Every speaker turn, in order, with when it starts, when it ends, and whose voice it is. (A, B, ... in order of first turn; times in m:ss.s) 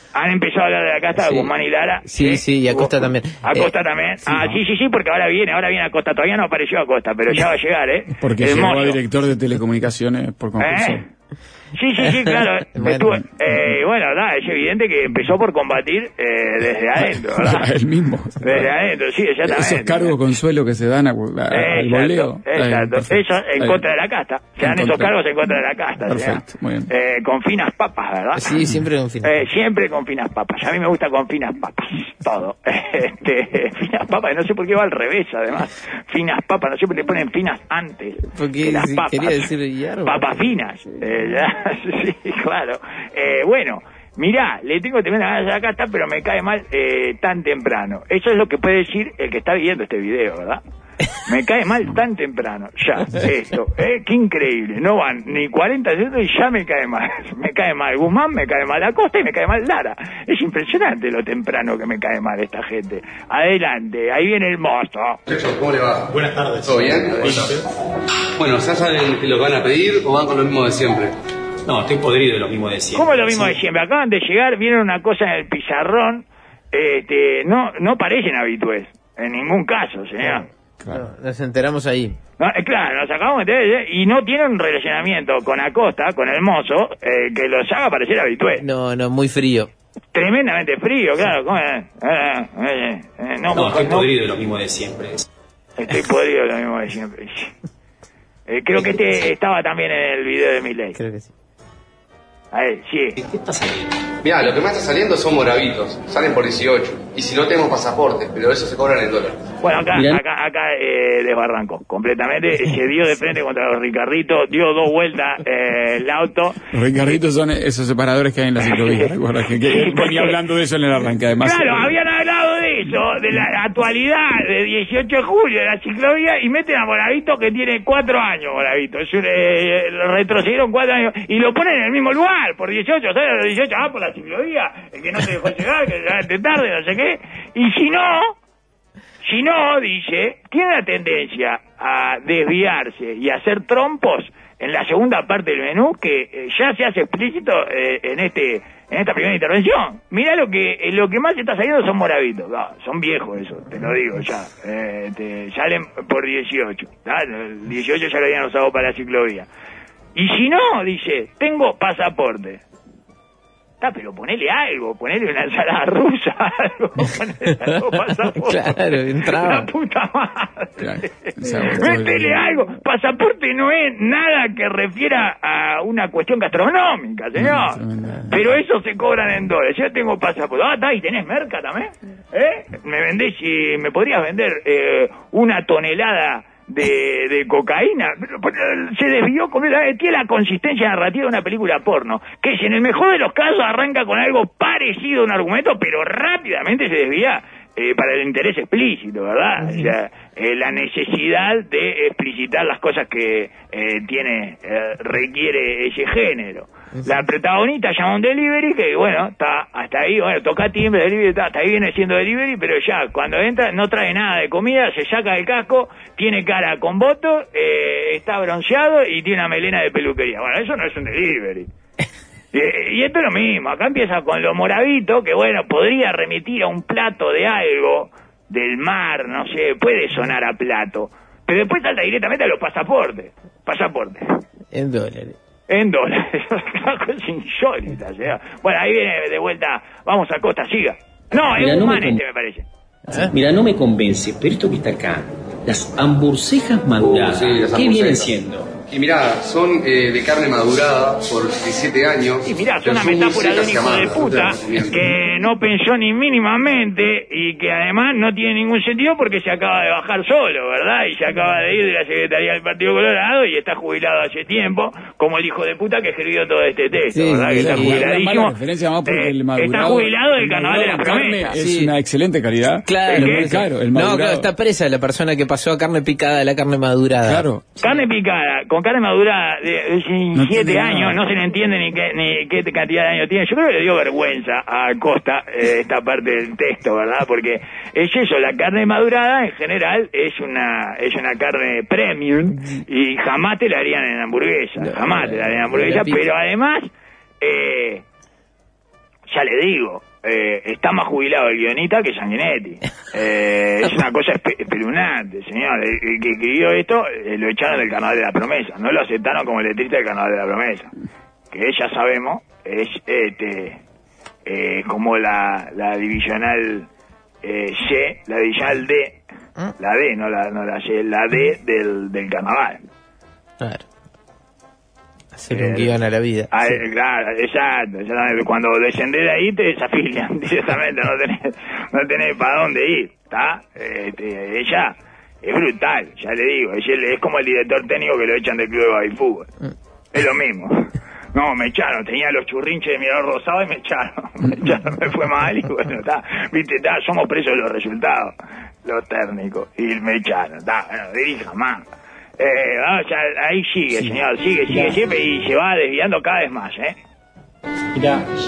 0:00.1-0:09.0 A
0:01.2-0:01.5 B
0:02.1-0:03.7 B
0:04.3-0:04.6 C
0:08.2-0:11.0 C
0:10.6-0:11.0 A
0:11.8-0:17.7 A
0:12.2-0:13.1 B
0:13.2-0:13.6 C
0:17.3-0:18.7 C
0:18.4-0:20.1 A
0:19.4-0:23.8 C
0:21.5-0:28.6 A
0:24.6-0:25.1 C
0:26.1-0:26.9 C
0:28.4-0:29.4 B
0:29.2-0:39.5 A
0:38.3-0:40.5 B
0:40.0-0:50.6 A
0:51.1-1:05.2 A
1:05.3-1:07.6 D
1:06.1-1:07.6 E
1:08.4-1:11.1 D
1:11.7-1:13.6 F
1:12.9-1:20.5 A
1:20.2-1:22.2 B
1:20.8-1:21.1 C
1:22.4-1:28.6 A
1:28.6-1:29.7 B
1:30.1-1:34.1 A
1:33.5-1:35.2 F
1:35.8-1:37.5 A
1:38.5-1:41.0 A
1:41.0-1:41.3 B
1:42.5-1:43.2 A
1:43.2-1:43.9 F
1:44.2-1:49.4 D
1:49.6-1:56.7 A
1:49.9-1:50.2 F
1:56.7-2:02.0 C
1:58.7-2:00.4 A
2:01.4-2:18.4 A
2:19.2-2:39.5 A
2:40.1-2:42.6 A
2:43.8-2:50.9 A
2:48.4-2:49.7 B
2:50.8-2:52.5 C
2:51.5-3:41.7 A
2:57.4-2:58.6 C
3:42.5-3:54.4 A
3:54.7-3:55.4 B
3:55.7-4:02.7 A
4:01.5-4:02.2 F
4:03.3-4:08.7 F
4:07.0-4:15.0 D
4:12.4-4:31.6 A
4:27.1-4:28.1 B
4:27.6-4:34.5 C
4:31.6-4:31.9 B
4:32.9-4:37.4 B
4:33.1-4:33.5 A
4:37.3-4:37.8 C
4:37.8-4:56.9 A
4:40.3-4:41.2 C
4:52.6-4:52.8 B
4:54.8-4:56.2 B
4:57.4-4:58.0 A
4:59.3-5:10.9 A
5:11.5-5:13.8 A
5:14.5-5:16.9 A
5:17.4-5:19.2 A
5:19.8-5:22.8 A
5:23.6-5:23.9 B
5:25.4-5:26.7 B
5:25.5-5:25.9 A
5:26.5-5:39.5 A
5:40.1-5:51.8 A
5:52.4-5:57.0 A
5:54.7-5:55.0 E
5:57.9-5:58.3 E